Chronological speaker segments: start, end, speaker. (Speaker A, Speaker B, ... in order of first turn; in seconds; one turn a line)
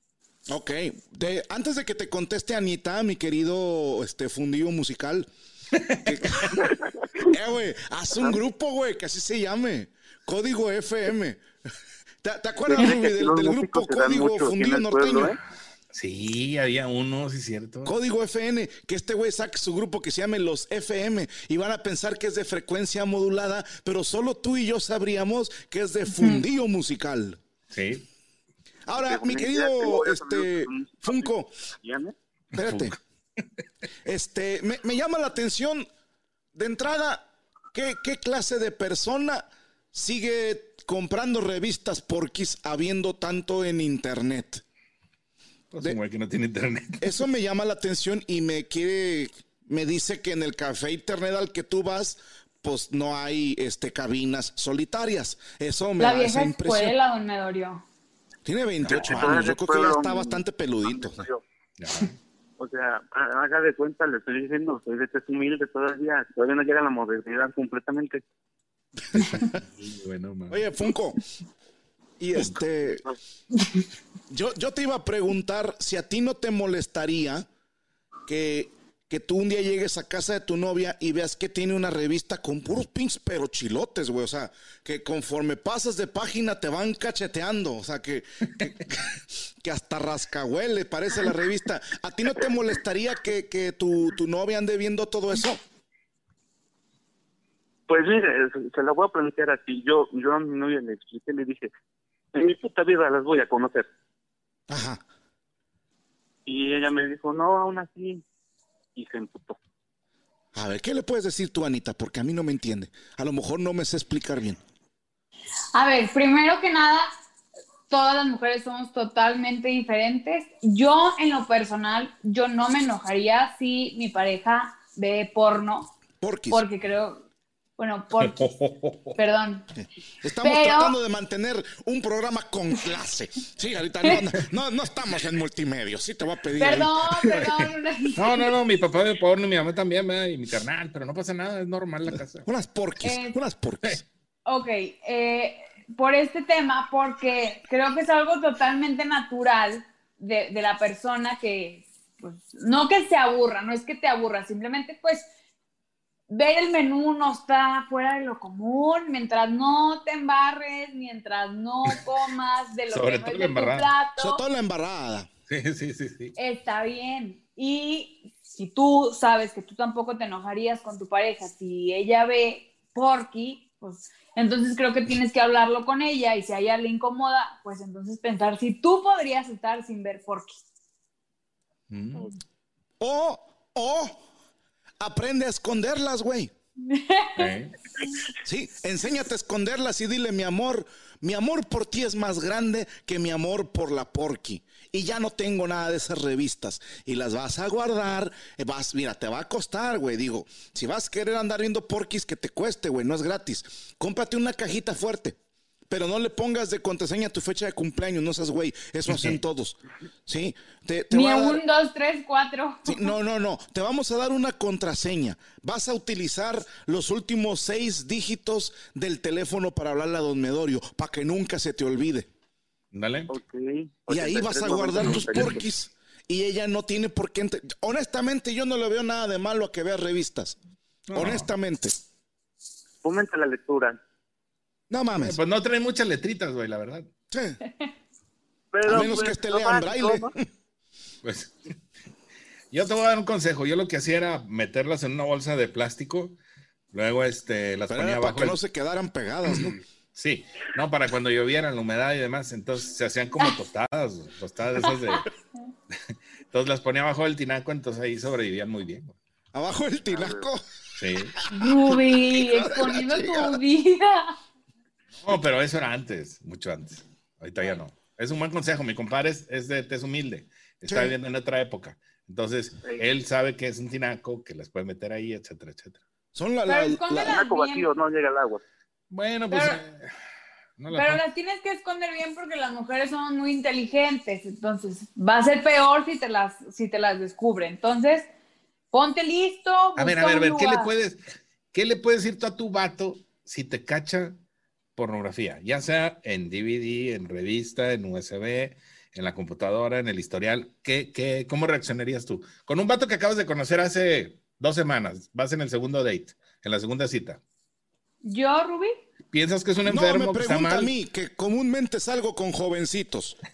Speaker A: 0.5-5.3
Speaker B: 5.8-6.0
Speaker A: 6.0-11.4
Speaker A: 12.2-15.4
Speaker C: 12.7-15.4
Speaker B: 15.9-17.9
Speaker A: 17.9-27.4
Speaker B: 27.7-28.1
Speaker A: 28.9-31.5
Speaker C: 29.0-32.1
Speaker A: 32.5-33.0
Speaker B: 32.5-33.0
Speaker A: 34.0-35.9
Speaker A: 36.5-44.6
Speaker B: 45.7-47.0
Speaker A: 47.0-57.0
Speaker D: 56.0-57.8
Speaker A: 58.5-61.3
Speaker B: 58.8-59.4
Speaker C: 58.9-61.4
Speaker B: 61.8-62.1
Speaker C: 62.6-68.2
Speaker A: 69.1-69.6
Speaker B: 69.2-70.6
Speaker A: 70.5-71.2
Speaker A: 72.2-73.0
Speaker A: 74.3-77.5
Speaker A: 78.3-95.6
Speaker C: 97.9-101.7
Speaker C: 102.3-103.9
Speaker A: 104.7-105.0
Speaker C: 106.5-108.2
Speaker C: 109.0-109.6
Speaker A: 110.5-114.6
Speaker D: 115.7-117.1
Speaker D: 117.9-125.9
Speaker A: 126.2-126.6
Speaker D: 126.5-127.2
Speaker D: 127.8-128.4
Speaker B: 128.2-129.1
Speaker D: 129.2-129.7
Speaker A: 129.8-137.5
Speaker D: 130.4-131.0
Speaker D: 136.6-138.5
Speaker B: 138.2-142.5
Speaker A: 142.4-144.0
Speaker D: 143.0-143.4
Speaker D: 144.5-155.3
Speaker D: 156.3-164.4
Speaker B: 162.9-163.9
Speaker A: 164.2-165.3
Speaker B: 165.5-166.3
Speaker D: 166.4-180.6
Speaker B: 181.9-182.3
Speaker A: 183.0-184.2
Speaker A: 185.0-186.5
Speaker D: 186.9-187.5
Speaker B: 187.4-187.8
Speaker A: 188.4-205.4
Speaker A: 205.9-211.6
Speaker D: 211.1-213.1
Speaker A: 212.9-222.3
Speaker B: 222.9-223.3
Speaker C: 223.3-225.7
Speaker A: 224.1-230.6
Speaker B: 225.1-225.4
Speaker B: 231.1-231.5
Speaker A: 231.2-231.9
Speaker C: 233.0-234.0
Speaker A: 234.9-235.4
Speaker B: 235.2-237.1
Speaker A: 237.3-237.6
Speaker C: 238.7-240.3
Speaker A: 238.9-240.4
Speaker B: 241.2-241.5
Speaker B: 242.7-246.4
Speaker B: 246.9-248.6
Speaker A: 247.9-249.8
Speaker B: 250.2-255.3
Speaker B: 256.5-259.2
Speaker A: 259.5-260.6
Speaker C: 260.1-260.5
Speaker B: 261.0-261.4
Speaker D: 261.5-264.4
Speaker A: 261.6-263.6
Speaker B: 265.2-276.0
Speaker A: 270.9-271.1
Speaker A: 276.4-277.4
Speaker D: 276.7-277.9
Speaker C: 277.2-278.6
Speaker B: 279.1-280.1
Speaker D: 279.5-279.8
Speaker B: 280.8-281.2
Speaker D: 280.9-288.3
Speaker D: 288.9-290.9
Speaker B: 290.0-291.2
Speaker B: 291.7-294.4
Speaker B: 295.0-307.4
Speaker D: 308.2-308.9
Speaker B: 309.3-310.9
Speaker A: 309.8-313.4